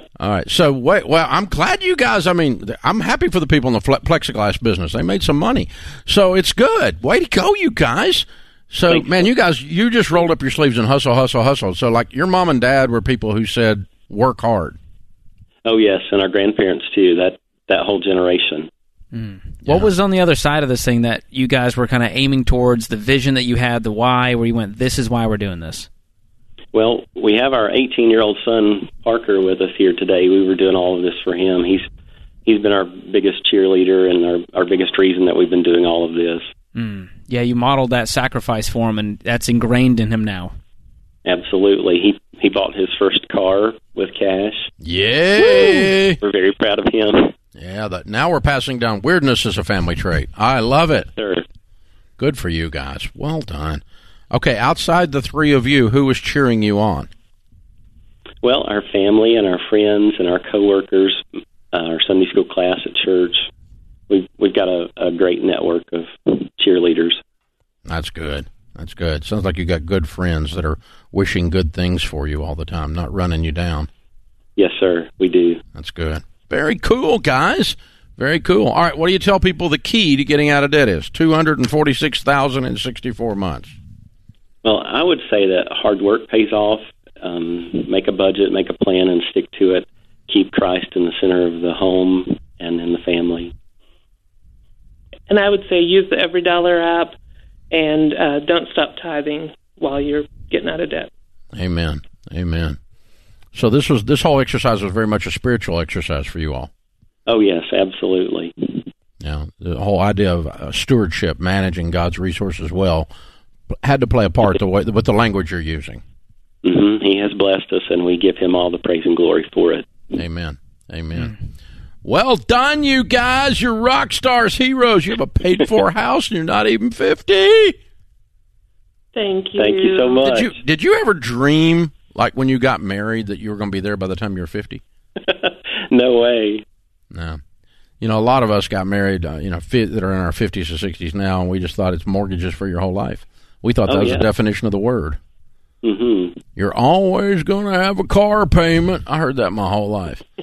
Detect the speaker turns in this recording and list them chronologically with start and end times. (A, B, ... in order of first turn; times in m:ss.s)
0:00.2-0:14.8 A
0:08.9-0:09.2 B
0:15.6-0:18.7 B
0:19.1-0:25.9 C
0:19.6-0:19.9 A
0:26.7-0:31.9 B
0:32.5-0:36.5 B
0:36.8-0:40.6 C
0:41.2-0:44.7 B
0:44.8-0:46.2 A
0:46.2-0:47.3 B
0:47.6-0:51.1 A
0:51.2-0:51.4 B
0:52.2-0:57.1 A
0:58.4-1:03.5 B
1:04.1-1:07.2 B
1:07.9-1:13.9 A
1:14.6-1:15.6 B
1:15.8-1:23.7 A
1:24.6-1:33.5 B
1:35.3-1:37.2 D
1:37.7-1:41.1 D
1:41.5-1:42.8 A
1:43.5-1:46.7 A
1:47.3-1:48.8 B
1:49.2-1:53.1 A
1:53.7-1:56.0 A
1:56.6-1:59.9 B
2:00.1-2:01.4 A
2:02.0-2:07.8 A
2:09.1-2:10.2 D
2:09.6-2:10.5 B
2:10.2-2:14.8 A
2:15.2-2:16.6 B
2:17.1-2:17.4 A
2:18.0-2:25.2 A
2:23.9-2:24.2 B
2:25.8-2:26.4 B
2:26.6-2:30.2 A